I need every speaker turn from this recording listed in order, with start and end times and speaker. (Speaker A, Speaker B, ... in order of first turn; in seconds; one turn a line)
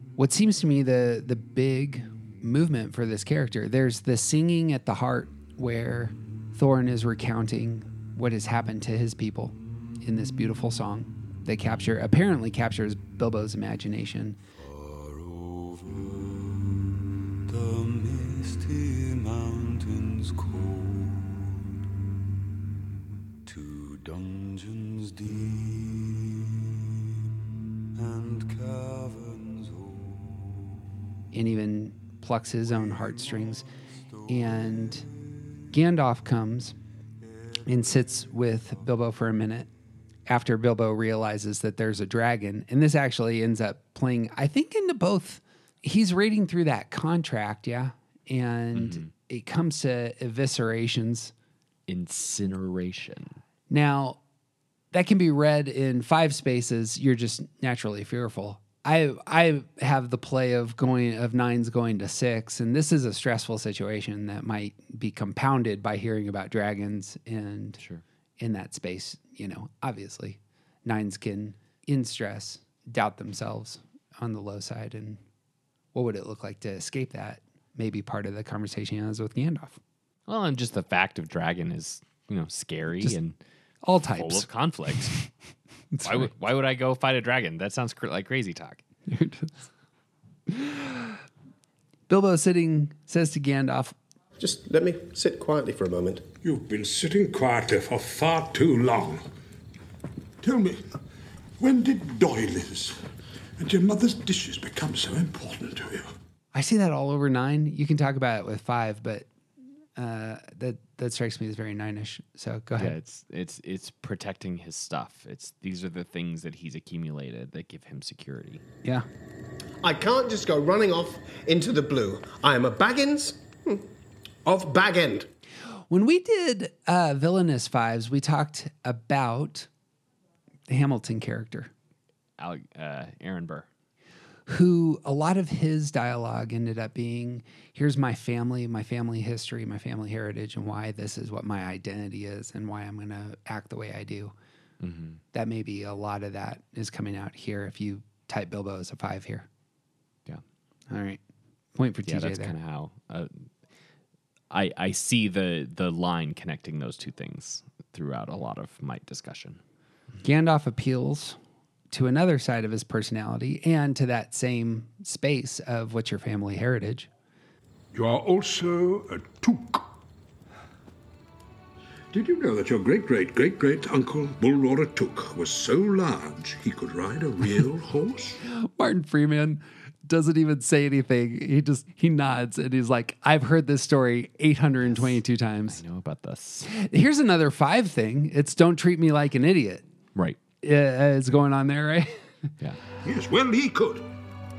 Speaker A: 0.2-14.4
Speaker B: 14.6-16.7
Speaker B: 17.5-21.5
Speaker B: 23.5-26.2
Speaker B: 28.0-30.5
Speaker A: 31.3-33.6
Speaker A: 34.3-35.0
Speaker A: 35.7-36.8
Speaker A: 37.6-39.7
Speaker A: 40.3-51.3
Speaker C: 48.8-49.1
Speaker C: 51.9-53.4
Speaker A: 53.7-54.2
Speaker A: 54.9-67.8
Speaker A: 68.4-75.2
Speaker A: 75.9-79.8
Speaker C: 80.3-83.4
Speaker A: 83.8-84.5
Speaker C: 84.1-85.1
Speaker A: 85.9-86.3
Speaker C: 86.0-88.8
Speaker A: 89.1-89.5
Speaker A: 90.5-91.2
Speaker A: 92.1-94.0
Speaker D: 94.4-96.3
Speaker E: 96.4-99.2
Speaker E: 100.4-101.0
Speaker E: 101.6-103.0
Speaker E: 103.6-106.1
Speaker A: 106.5-109.3
Speaker A: 110.0-113.0
Speaker C: 112.8-118.6
Speaker D: 119.8-123.8
Speaker D: 124.5-125.3
Speaker A: 125.9-129.7
Speaker A: 130.7-131.7
Speaker C: 132.4-133.7
Speaker A: 134.5-144.3
Speaker C: 144.8-145.2
Speaker A: 145.3-149.5
Speaker A: 150.9-151.2
Speaker A: 151.8-152.6
Speaker C: 152.1-153.5
Speaker C: 154.5-159.6
Speaker A: 160.2-161.4
Speaker A: 161.9-167.1
Speaker E: 167.9-169.9
Speaker E: 172.1-178.4
Speaker A: 178.5-185.8
Speaker C: 185.7-186.7
Speaker A: 186.7-189.8
Speaker A: 190.6-192.3
Speaker E: 193.0-194.1